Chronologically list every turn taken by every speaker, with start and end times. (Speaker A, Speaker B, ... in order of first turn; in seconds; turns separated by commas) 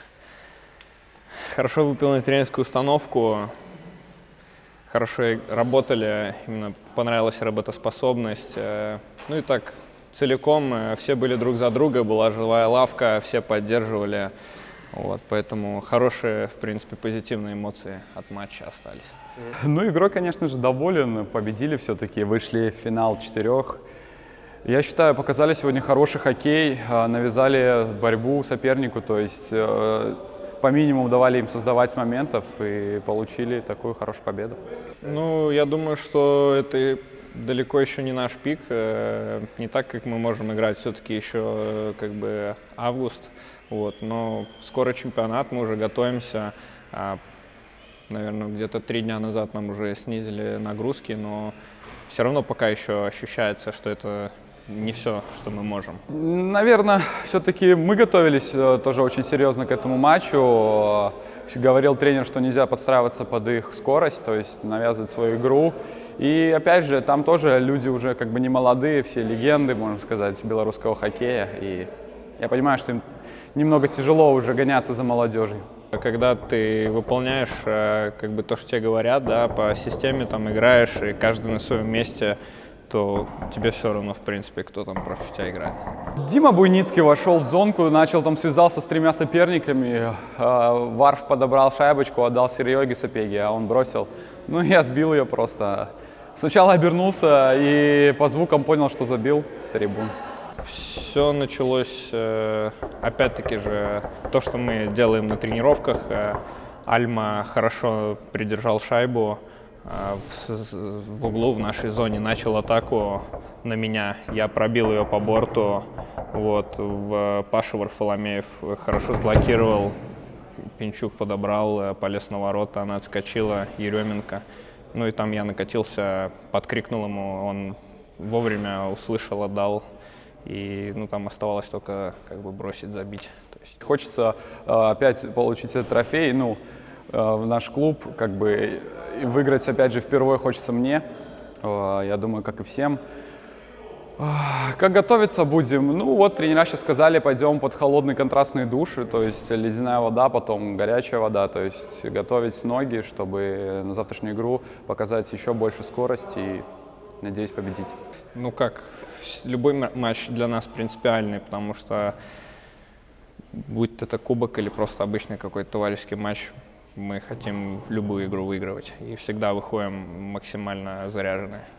Speaker A: 1.5-3.5, Speaker A: 4.9-14.3, Speaker A: 14.9-19.2, Speaker B: 19.6-23.8, Speaker B: 24.6-34.6, Speaker A: 35.0-47.2, Speaker A: 48.1-51.5, Speaker A: 52.1-56.0, Speaker B: 56.1-73.0, Speaker B: 73.5-75.7, Speaker A: 75.9-85.8, Speaker B: 86.2-100.1, Speaker A: 100.6-120.0, Speaker A: 120.8-124.4, Speaker A: 124.9-129.8, Speaker A: 130.4-133.8, Speaker B: 133.8-136.6, Speaker B: 137.1-141.1, Speaker B: 141.6-143.0, Speaker B: 144.2-156.7, Speaker B: 157.2-158.0, Speaker A: 158.3-162.2, Speaker A: 163.5-171.7